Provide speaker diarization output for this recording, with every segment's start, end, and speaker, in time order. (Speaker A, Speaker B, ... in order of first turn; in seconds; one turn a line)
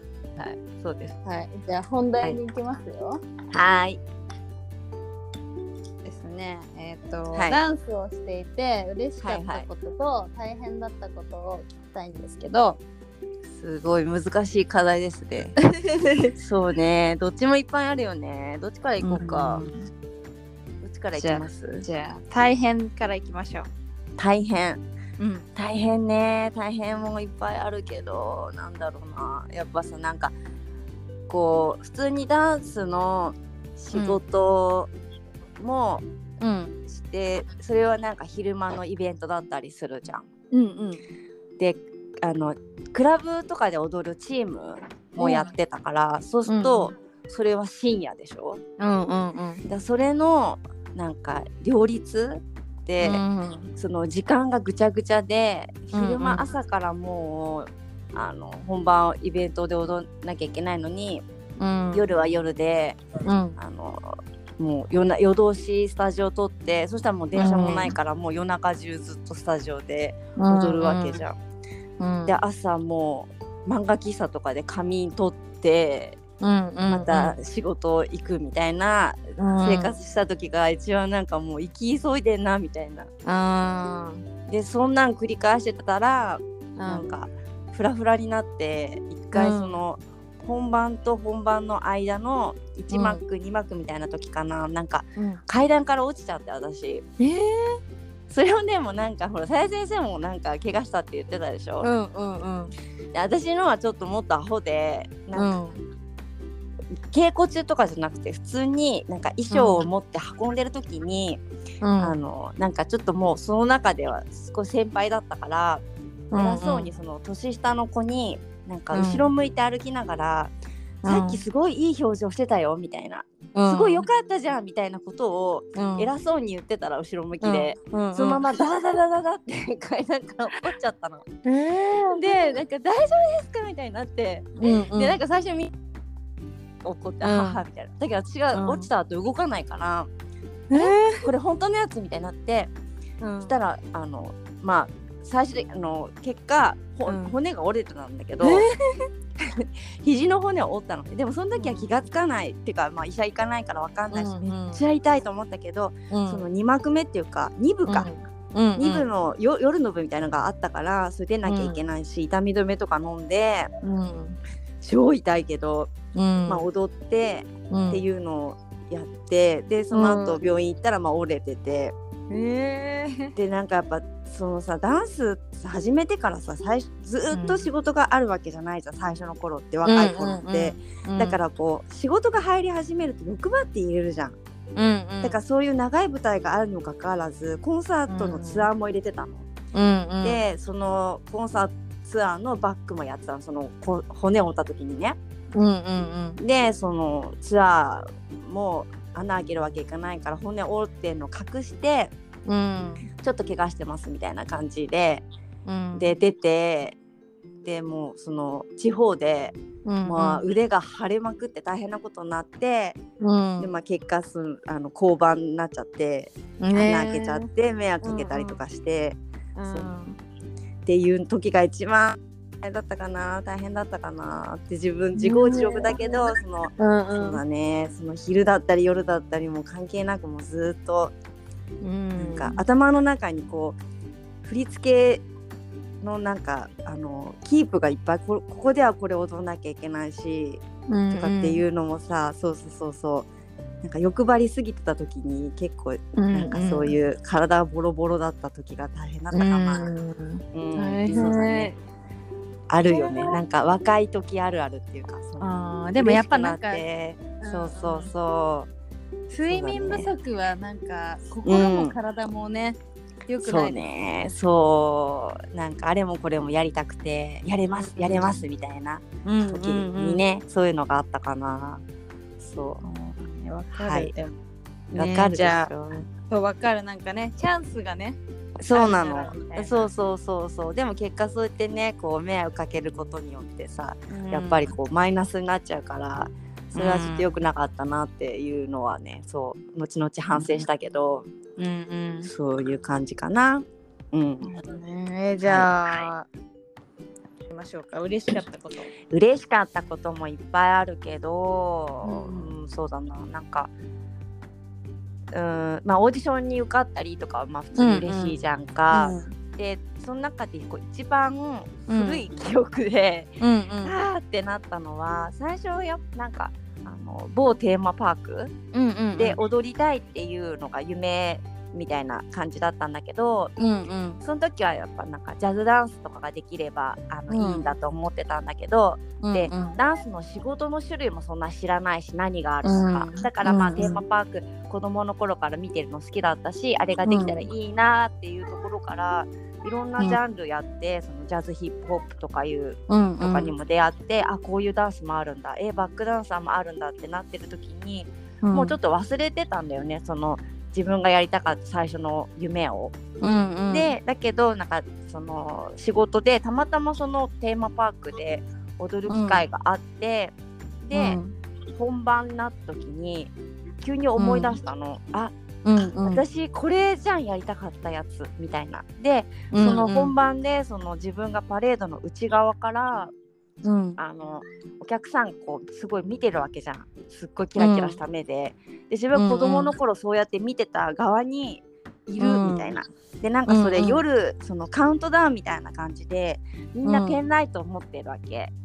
Speaker A: 0.4-1.2
Speaker B: 1.2-3.2
Speaker A: 3.5-4.0
Speaker B: 6.0-12.8
Speaker A: 7.3-7.6
Speaker A: 9.2-9.7
Speaker A: 13.5-15.6
Speaker B: 16.1-16.3
Speaker A: 16.4-19.6
Speaker B: 19.0-19.9
Speaker A: 20.8-21.9
Speaker B: 21.1-23.7
Speaker A: 24.2-24.8
Speaker B: 25.2-25.5
Speaker A: 25.6-30.4
Speaker A: 31.3-34.9
Speaker B: 33.9-34.2
Speaker A: 35.6-36.0
Speaker B: 36.4-36.7
Speaker A: 36.9-40.3
Speaker B: 40.5-41.0
Speaker A: 41.6-48.6
Speaker B: 45.2-45.5
Speaker B: 46.5-46.9
Speaker B: 48.8-49.6
Speaker A: 49.7-53.2
Speaker B: 53.0-53.7
Speaker A: 53.8-61.2
Speaker B: 55.9-56.5
Speaker B: 61.6-62.0
Speaker A: 61.9-63.0
Speaker B: 63.2-63.6
Speaker A: 63.6-71.4
Speaker B: 67.3-68.0
Speaker B: 70.4-71.2
Speaker B: 72.0-72.3
Speaker A: 72.3-76.2
Speaker B: 76.4-77.3
Speaker A: 76.9-83.1
Speaker B: 79.4-79.9
Speaker B: 83.2-84.2
Speaker A: 84.5-97.1
Speaker B: 86.8-87.1
Speaker B: 89.3-89.8
Speaker B: 92.9-93.2
Speaker B: 95.2-95.4
Speaker B: 97.2-97.8
Speaker A: 98.3-101.9
Speaker B: 101.8-102.7
Speaker A: 103.1-105.6
Speaker B: 105.3-105.8
Speaker A: 107.1-111.4
Speaker B: 109.5-109.8
Speaker B: 111.8-112.2
Speaker A: 112.0-120.5
Speaker B: 116.3-116.9
Speaker B: 118.9-119.3
Speaker B: 121.0-121.4
Speaker A: 121.0-131.3
Speaker B: 123.5-124.1
Speaker B: 125.8-126.1
Speaker B: 127.4-128.4
Speaker B: 131.4-132.5
Speaker A: 132.1-135.7
Speaker B: 134.6-135.2
Speaker A: 136.8-140.1
Speaker B: 137.2-137.6
Speaker B: 138.5-138.9
Speaker B: 140.7-141.3
Speaker A: 140.7-142.7
Speaker B: 143.2-143.6
Speaker A: 143.4-148.6
Speaker B: 147.1-147.4
Speaker B: 148.4-149.1
Speaker A: 149.4-158.1
Speaker B: 151.5-151.9
Speaker B: 154.1-154.8
Speaker B: 156.1-156.4
Speaker B: 157.9-159.1
Speaker A: 158.8-163.7
Speaker B: 161.4-161.8
Speaker B: 163.8-164.4
Speaker A: 164.8-165.9
Speaker B: 166.2-166.7
Speaker A: 166.5-171.9
Speaker B: 167.7-168.0
Speaker B: 169.9-170.4
Speaker B: 172.3-173.3
Speaker A: 173.3-184.4
Speaker B: 177.3-177.7
Speaker B: 179.8-181.4
Speaker B: 184.8-185.4
Speaker A: 185.2-189.5
Speaker B: 188.1-188.7
Speaker B: 189.7-190.4
Speaker A: 190.2-195.2
Speaker B: 195.6-196.4
Speaker A: 196.4-202.1
Speaker B: 202.5-203.1
Speaker A: 203.2-205.3
Speaker B: 205.7-206.1
Speaker A: 205.9-207.0
Speaker A: 207.6-213.0
Speaker B: 209.8-210.4
Speaker B: 213.2-213.7
Speaker A: 213.6-219.9
Speaker B: 216.6-217.5
Speaker B: 218.0-218.6
Speaker B: 219.6-220.2
Speaker A: 220.9-231.2
Speaker B: 225.2-226.2
Speaker B: 226.8-227.4
Speaker B: 231.8-232.6
Speaker A: 232.2-233.8
Speaker A: 234.4-235.3
Speaker A: 236.0-243.3
Speaker B: 240.9-241.6
Speaker A: 243.8-249.9
Speaker B: 246.2-246.9
Speaker B: 249.3-251.8
Speaker A: 250.5-251.7
Speaker A: 252.7-258.7
Speaker B: 252.9-253.4
Speaker B: 255.4-256.8
Speaker B: 257.4-258.1
Speaker B: 259.3-263.8
Speaker A: 259.5-260.1
Speaker A: 261.5-262.0
Speaker A: 263.4-271.8
Speaker B: 267.7-268.4
Speaker B: 269.2-270.2
Speaker A: 272.4-272.8
Speaker B: 272.8-274.3
Speaker A: 273.7-274.1
Speaker B: 274.9-275.7
Speaker A: 274.9-276.1
Speaker B: 276.3-278.2
Speaker A: 278.6-291.3
Speaker B: 278.7-279.9
Speaker B: 284.1-284.8
Speaker B: 286.7-287.4
Speaker B: 290.3-290.6
Speaker B: 291.6-292.3
Speaker A: 292.2-294.5
Speaker B: 294.4-296.3
Speaker A: 295.4-296.1
Speaker B: 297.5-298.9
Speaker A: 299.1-303.7
Speaker B: 302.0-302.5
Speaker A: 305.3-318.5
Speaker B: 307.8-308.4
Speaker B: 308.9-309.3
Speaker B: 311.9-312.2
Speaker B: 313.4-313.9
Speaker B: 318.7-319.4
Speaker A: 319.2-323.6
Speaker B: 323.6-324.2
Speaker A: 324.2-352.9
Speaker B: 327.3-327.7
Speaker B: 329.2-329.8
Speaker B: 332.6-334.0
Speaker B: 337.0-337.5
Speaker B: 342.9-343.5
Speaker B: 348.4-348.8
Speaker B: 353.2-353.9
Speaker A: 353.7-361.2
Speaker B: 359.1-359.4
Speaker B: 360.9-361.4
Speaker A: 361.7-365.3
Speaker B: 364.2-364.6
Speaker B: 365.6-366.2
Speaker A: 366.1-373.1
Speaker B: 369.5-370.1
Speaker B: 373.6-374.0
Speaker A: 374.0-388.5
Speaker B: 377.6-378.0
Speaker B: 379.1-379.7
Speaker B: 382.2-382.7
Speaker B: 383.5-384.0
Speaker B: 386.8-387.2